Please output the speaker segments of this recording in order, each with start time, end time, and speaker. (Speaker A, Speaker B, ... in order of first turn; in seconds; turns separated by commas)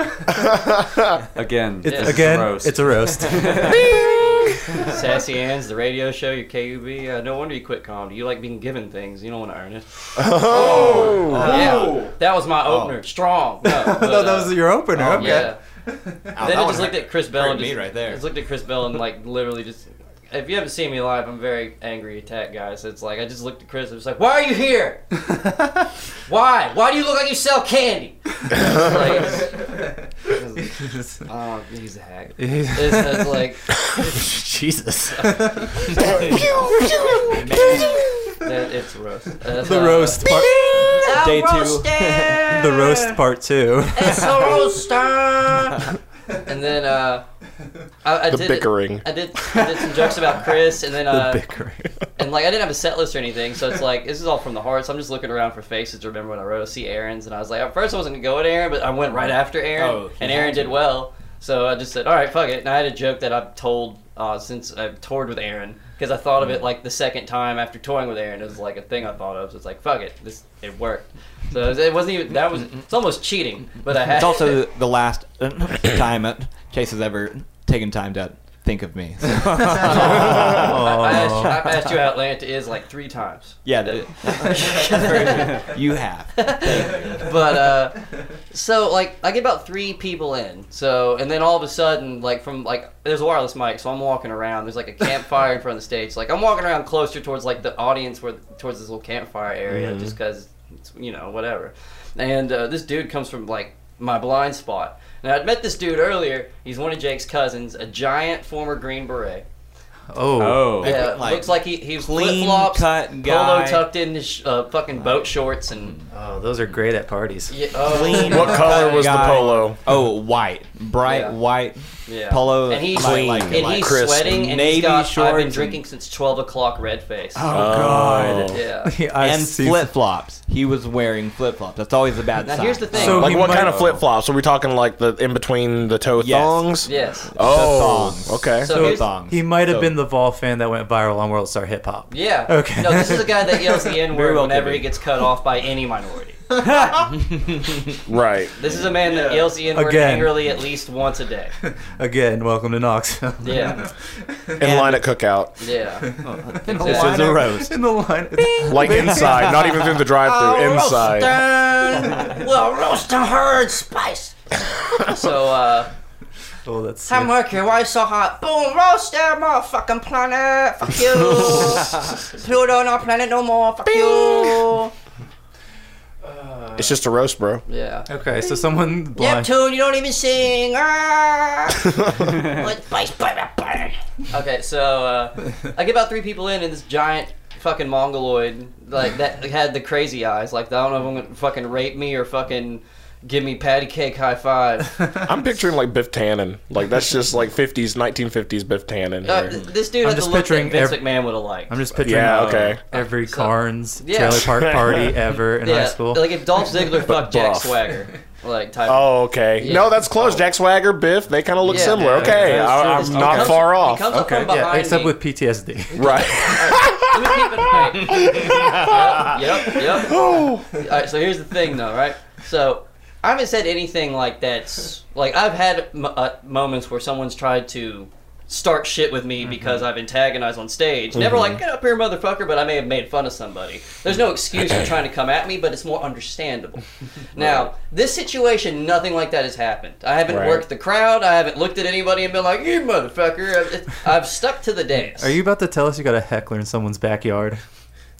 Speaker A: 0.4-1.0, Speaker B: 1.4-3.9, Speaker C: 1.8-4.0, Speaker D: 1.9-2.3, Speaker A: 4.0-4.4, Speaker D: 4.8-14.6, Speaker A: 10.2-11.6, Speaker E: 10.5-12.1, Speaker C: 11.5-11.8, Speaker E: 12.6-13.0, Speaker C: 13.7-15.5, Speaker E: 14.9-15.5, Speaker D: 15.1-15.6, Speaker E: 16.3-18.2, Speaker D: 16.4-25.0, Speaker D: 26.3-29.7, Speaker D: 30.2-34.3, Speaker C: 30.8-31.2, Speaker C: 32.4-38.3, Speaker D: 35.1-36.4, Speaker E: 36.0-36.4, Speaker D: 37.1-43.2, Speaker E: 37.3-38.0, Speaker C: 39.6-41.0, Speaker E: 40.8-42.7, Speaker C: 42.5-44.6, Speaker D: 43.9-45.9, Speaker D: 46.5-47.2, Speaker D: 48.0-51.4, Speaker A: 48.3-49.1, Speaker C: 51.1-51.9, Speaker D: 52.2-74.6, Speaker E: 59.7-60.8, Speaker E: 74.0-81.5, Speaker C: 79.8-81.6, Speaker D: 79.8-85.7, Speaker E: 83.6-87.5, Speaker D: 86.4-109.4, Speaker A: 99.7-100.1, Speaker C: 110.1-110.9, Speaker B: 110.4-111.0, Speaker E: 110.6-113.9, Speaker D: 110.8-116.0, Speaker C: 116.1-118.1, Speaker D: 117.5-119.4, Speaker E: 117.8-125.8, Speaker A: 118.2-119.8, Speaker D: 121.0-121.4, Speaker D: 122.1-127.4, Speaker A: 122.9-124.4, Speaker E: 127.4-128.6, Speaker A: 127.5-128.6, Speaker D: 128.5-128.9, Speaker C: 128.8-129.9, Speaker E: 129.2-133.4, Speaker D: 132.4-133.5, Speaker C: 132.9-133.9, Speaker A: 133.1-138.8, Speaker B: 133.5-134.0, Speaker E: 136.2-140.0, Speaker D: 136.8-137.3, Speaker D: 138.6-139.1, Speaker C: 138.7-143.9, Speaker D: 142.1-147.0, Speaker E: 144.1-144.9, Speaker E: 147.2-147.8, Speaker A: 148.1-148.5, Speaker D: 148.6-151.5, Speaker B: 149.1-149.5, Speaker C: 149.7-150.6, Speaker C: 151.6-155.0, Speaker D: 153.4-153.8, Speaker A: 154.6-155.5, Speaker D: 155.6-156.1, Speaker C: 156.1-159.6, Speaker E: 156.3-157.8, Speaker D: 156.7-157.2, Speaker A: 158.7-161.4, Speaker D: 160.2-165.9, Speaker C: 166.7-167.4, Speaker D: 167.1-174.9, Speaker A: 176.8-177.6, Speaker D: 177.7-178.6, Speaker C: 178.1-179.5, Speaker D: 179.1-195.0, Speaker A: 195.2-199.6, Speaker D: 199.2-201.8, Speaker C: 200.0-206.4, Speaker A: 202.0-202.8, Speaker D: 202.9-204.5, Speaker A: 204.5-205.1, Speaker D: 205.6-210.4, Speaker A: 207.1-207.7, Speaker A: 208.9-214.1, Speaker D: 211.7-215.2, Speaker B: 212.2-214.5, Speaker C: 214.3-216.5, Speaker A: 215.9-220.7, Speaker D: 216.2-245.3, Speaker E: 218.2-219.0, Speaker A: 231.1-231.6, Speaker A: 240.3-240.6, Speaker C: 245.2-247.6